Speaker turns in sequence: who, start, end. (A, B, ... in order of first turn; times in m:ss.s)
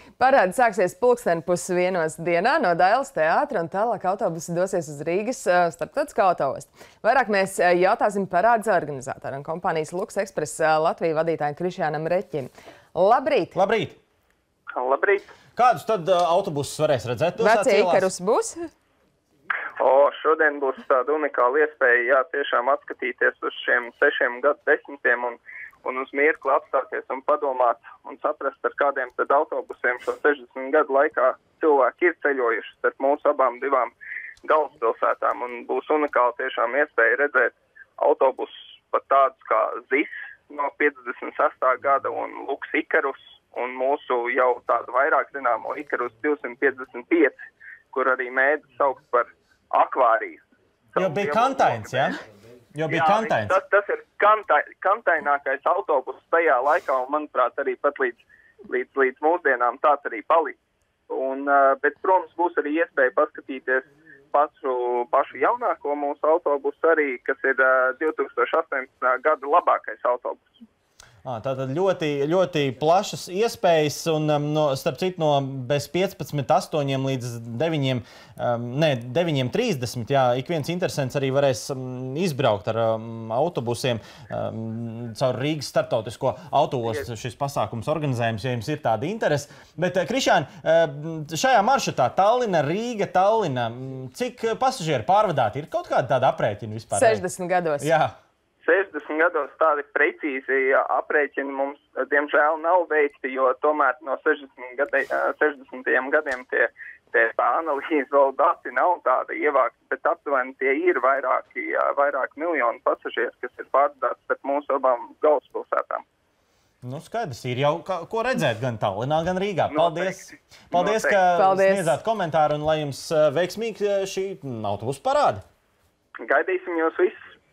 0:00.2-0:13.6 A
0:13.5-0:14.0 B
0:14.7-0:15.3 C
0:15.6-0:18.1 B
0:17.4-0:18.7 A
0:19.8-0:47.4 C
0:47.9-0:50.4 C
0:50.9-0:52.1 C
0:51.0-0:52.2 B
0:52.7-0:53.6 B
0:52.9-1:00.6 C
1:01.1-1:10.6 C
1:11.2-1:37.2 B
1:36.9-1:37.9 A
1:37.8-1:38.1 B
1:38.6-1:56.0 C
1:56.8-2:05.4 B
1:59.7-2:01.2 C
2:01.3-2:01.9 A
2:06.2-2:07.3 C